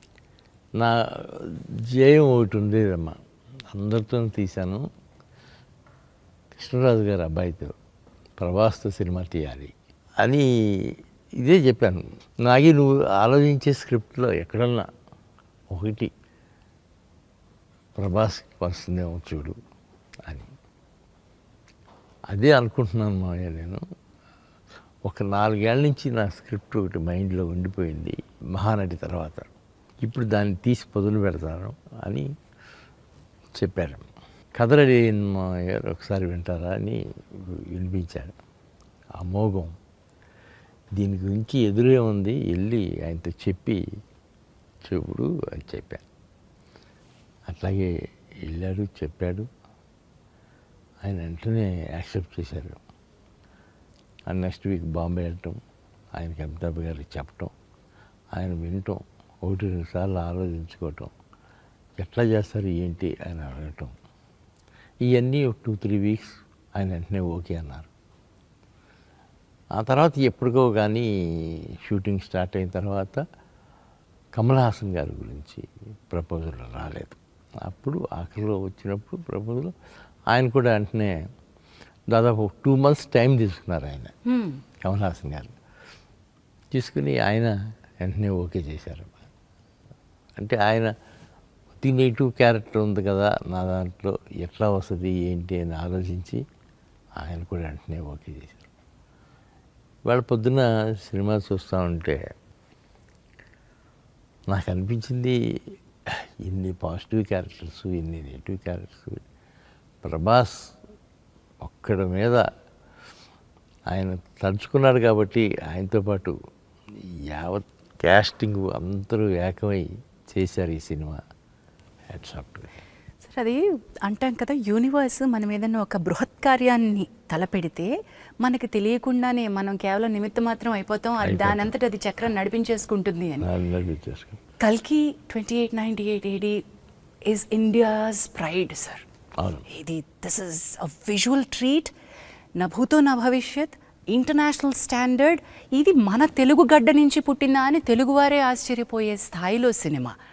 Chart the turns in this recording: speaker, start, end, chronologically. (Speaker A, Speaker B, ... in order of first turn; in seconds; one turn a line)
Speaker A: 0.8-3.2
Speaker A: 3.7-4.9
Speaker A: 6.5-7.8
Speaker A: 8.4-14.9
Speaker A: 15.7-16.1
Speaker A: 17.9-19.6
Speaker A: 22.3-23.8
Speaker A: 25.1-29.5
Speaker A: 30.0-32.3
Speaker A: 33.6-38.4
Speaker A: 39.2-39.7
Speaker A: 41.0-43.8
Speaker A: 44.9-46.0
Speaker A: 47.5-47.9
Speaker A: 48.5-49.5
Speaker A: 51.0-52.8
Speaker A: 54.3-55.6
Speaker A: 56.2-57.5
Speaker A: 58.3-61.1
Speaker A: 62.0-63.9
Speaker A: 65.1-67.9
Speaker A: 69.8-73.2
Speaker A: 74.3-79.7
Speaker A: 80.3-81.2
Speaker A: 82.1-84.1
Speaker B: 84.3-84.6
Speaker A: 84.8-85.5
Speaker A: 86.7-89.3
Speaker A: 90.4-90.9
Speaker A: 91.8-96.4
Speaker A: 97.2-98.7
Speaker A: 100.1-102.2
Speaker A: 104.5-105.4
Speaker A: 106.4-109.2
Speaker A: 110.0-110.7
Speaker A: 111.6-112.5
Speaker A: 113.9-116.3
Speaker A: 117.3-121.2
Speaker A: 122.1-122.7
Speaker B: 123.2-127.9
Speaker B: 128.4-133.5
Speaker A: 131.2-131.7
Speaker A: 133.4-134.4
Speaker B: 134.6-136.6
Speaker B: 137.3-139.1
Speaker A: 139.4-139.7
Speaker B: 139.7-141.9
Speaker B: 142.6-150.1